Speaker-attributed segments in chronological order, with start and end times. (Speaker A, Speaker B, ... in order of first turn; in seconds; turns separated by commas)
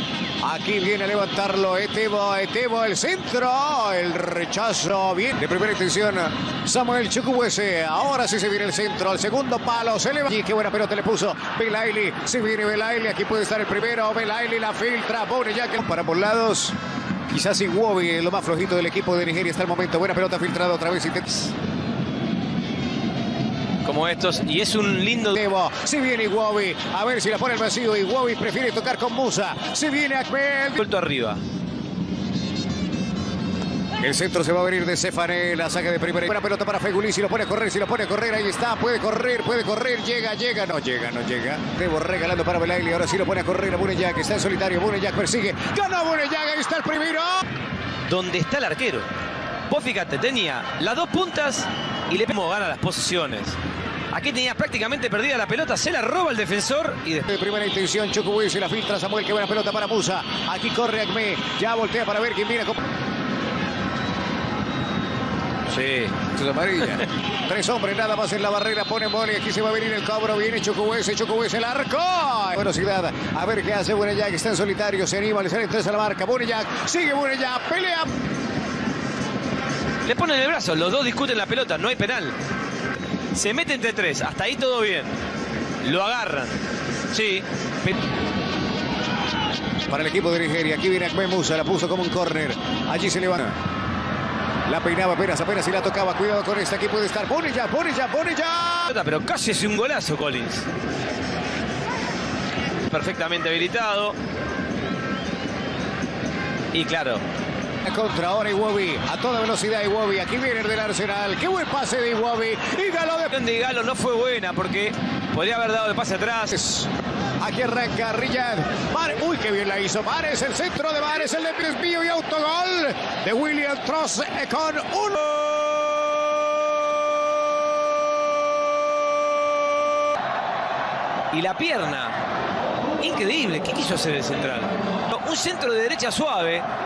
Speaker A: 0.4-16.8, Speaker A: 17.3-21.4, Speaker B: 23.8-25.4, Speaker A: 25.3-30.8, Speaker B: 30.8-31.4, Speaker A: 34.0-47.4, Speaker B: 48.0-49.1, Speaker B: 49.7-53.5, Speaker B: 54.1-57.3, Speaker A: 57.3-62.8, Speaker B: 65.7-66.2, Speaker A: 66.2-78.1, Speaker B: 80.0-82.3, Speaker B: 83.3-85.1, Speaker B: 85.8-86.6, Speaker B: 87.1-88.0, Speaker A: 89.9-93.6, Speaker A: 94.7-98.9, Speaker B: 98.9-100.7, Speaker B: 102.9-104.1, Speaker B: 106.7-107.2, Speaker A: 107.8-113.3, Speaker B: 113.3-116.5, Speaker A: 116.5-116.9, Speaker A: 117.4-125.5, Speaker B: 131.3-132.1, Speaker B: 133.0-136.6